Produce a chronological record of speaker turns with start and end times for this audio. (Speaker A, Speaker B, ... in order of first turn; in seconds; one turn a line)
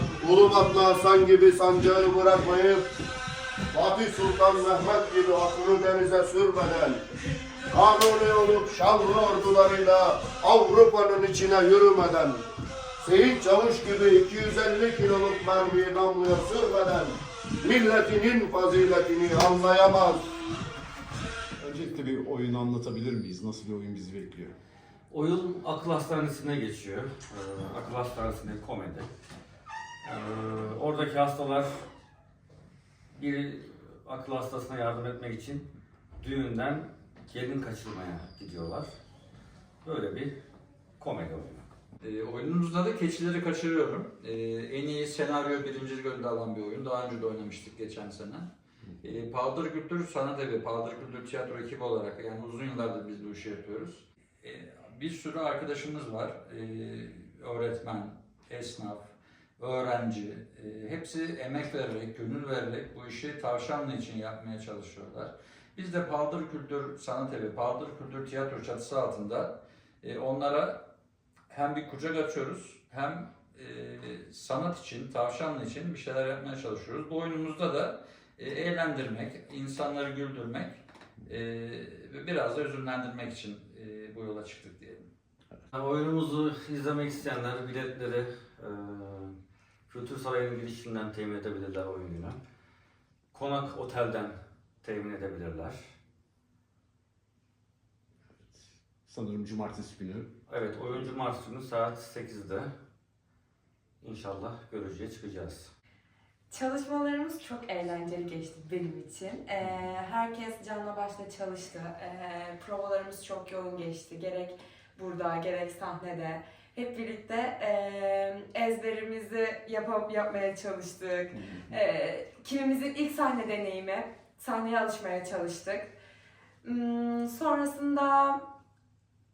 Speaker A: 0.2-2.9
Speaker A: 3.7-7.0
Speaker A: 7.7-12.4
Speaker A: 13.0-20.3
Speaker B: 21.6-24.5
Speaker C: 25.1-29.1
Speaker C: 30.1-31.8
Speaker C: 33.2-35.7
Speaker C: 36.2-38.9
Speaker C: 39.8-40.3
Speaker C: 41.0-41.7
Speaker D: 42.0-48.5
Speaker D: 49.0-70.8
Speaker D: 71.5-85.1
Speaker C: 85.7-89.3
Speaker C: 89.9-92.4
Speaker C: 93.3-95.8
Speaker B: 98.4-100.3
Speaker C: 100.5-102.7
Speaker C: 104.0-105.7
Speaker E: 106.5-125.9
Speaker E: 126.6-128.4